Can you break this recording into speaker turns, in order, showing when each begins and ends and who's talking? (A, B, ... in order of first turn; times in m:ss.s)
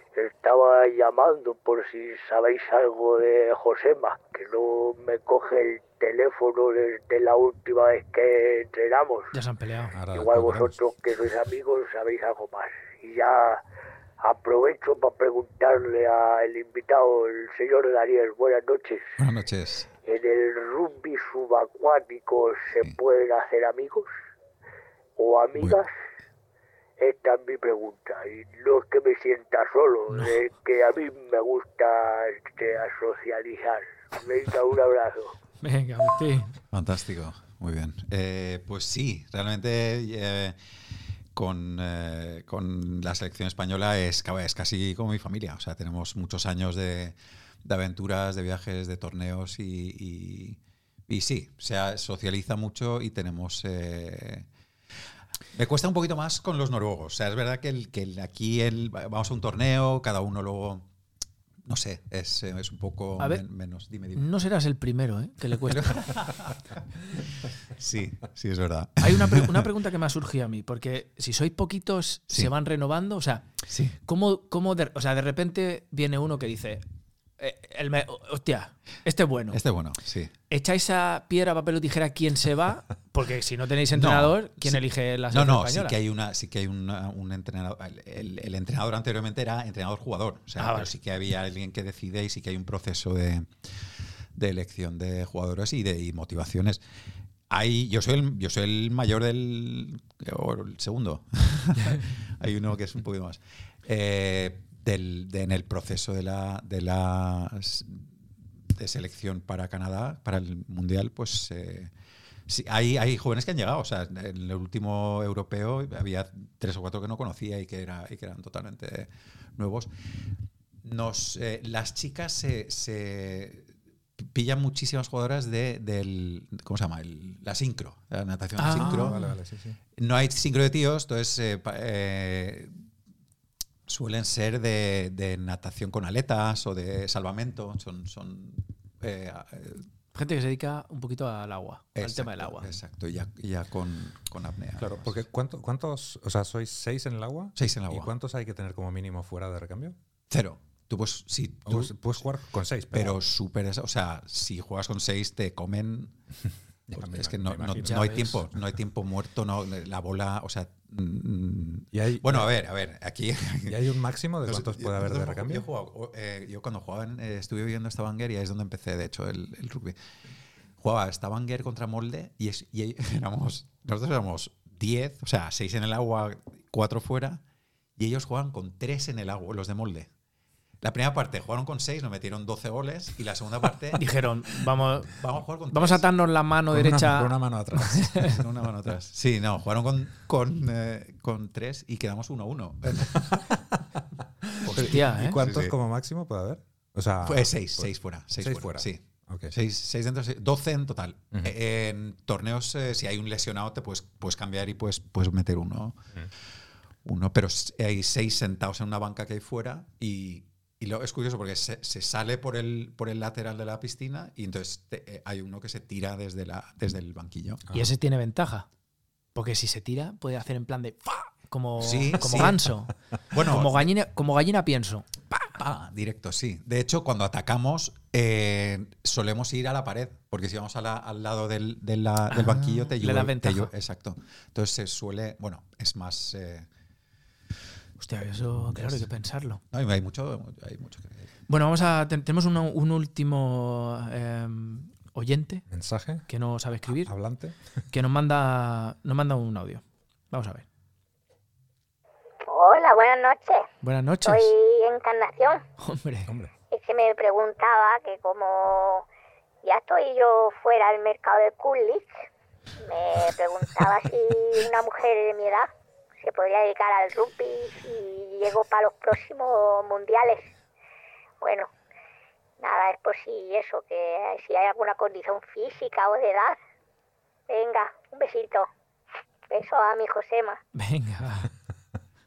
0:00.1-0:09.3 A
0:09.3-0:10.0 B
0:09.9-0:10.8 C
0:10.1-0:13.6 A
0:14.2-0:19.1 A
0:19.2-0:19.9 D
0:20.0-0:24.1 A
0:25.2-0:25.9 A
0:27.0-0:35.4 A
0:30.1-0:30.4 B
0:35.6-0:36.6 B
0:36.7-0:40.6 D
0:41.4-0:54.5 D
0:55.5-1:00.8 D
1:01.6-1:04.3 D
1:04.1-1:06.0 B
1:05.6-1:06.8 D
1:07.6-1:09.6 D
1:09.0-1:13.5 B
1:13.7-1:14.0 D
1:14.0-1:16.8 B
1:17.4-1:19.6 B
1:19.5-1:20.3 D
1:20.5-1:26.0 B
1:23.9-1:33.5 D
1:30.6-1:30.9 B
1:34.4-1:36.8 D
1:37.5-1:48.1 D
1:48.7-1:51.9 D
1:52.5-1:59.9 D
2:00.8-2:03.6 D
2:04.2-2:09.2 D
2:08.6-2:09.2 B
2:08.7-2:09.8 C
2:10.0-2:12.7 D
2:13.9-2:19.8 D
2:20.1-2:22.7 B
2:22.0-2:25.2 D
2:24.8-2:30.0 C
2:27.6-2:28.1 D
2:30.3-2:32.1 D
2:31.6-2:33.2 C
2:32.9-2:36.1 D
2:36.9-2:38.2 C
2:36.9-2:43.8 D
2:37.8-2:38.4 B
2:41.9-2:42.5 C
2:43.6-2:45.7 C
2:44.4-2:50.0 D
2:50.8-2:57.4 D
2:58.0-3:00.1 D
3:00.8-3:04.1 D
3:04.0-3:05.1 B
3:05.0-3:06.0 D
3:05.7-3:08.3 B
3:06.7-3:08.4 C
3:08.2-3:13.6 D
3:14.4-3:19.5 C
3:14.6-3:15.7 D
3:14.8-3:15.4 B
3:17.2-3:26.0 D
3:27.0-3:37.7 D
3:37.7-3:38.7 B
3:39.3-3:45.1 B
3:41.8-3:42.6 D
3:43.3-3:43.9 D
3:45.5-3:56.7 D
3:52.3-3:53.7 B
3:58.0-3:59.6 B
3:59.7-4:01.3 D
4:01.5-4:05.6 B
4:05.7-4:06.2 C
4:06.3-4:07.1 B
4:06.8-4:07.6 C
4:07.9-4:10.6 B
4:12.5-4:13.6 E
4:13.8-4:14.5 B
4:14.2-4:15.6 E
4:15.8-4:16.3 B
4:16.3-4:16.5 C
4:16.7-4:19.0 E
4:19.6-4:22.3 E
4:22.8-4:25.7 E
4:26.2-4:30.5 E
4:31.4-4:31.7 E
4:32.6-4:36.6 E
4:37.5-4:38.7 E
4:39.5-4:40.6 E
4:40.7-4:41.5 B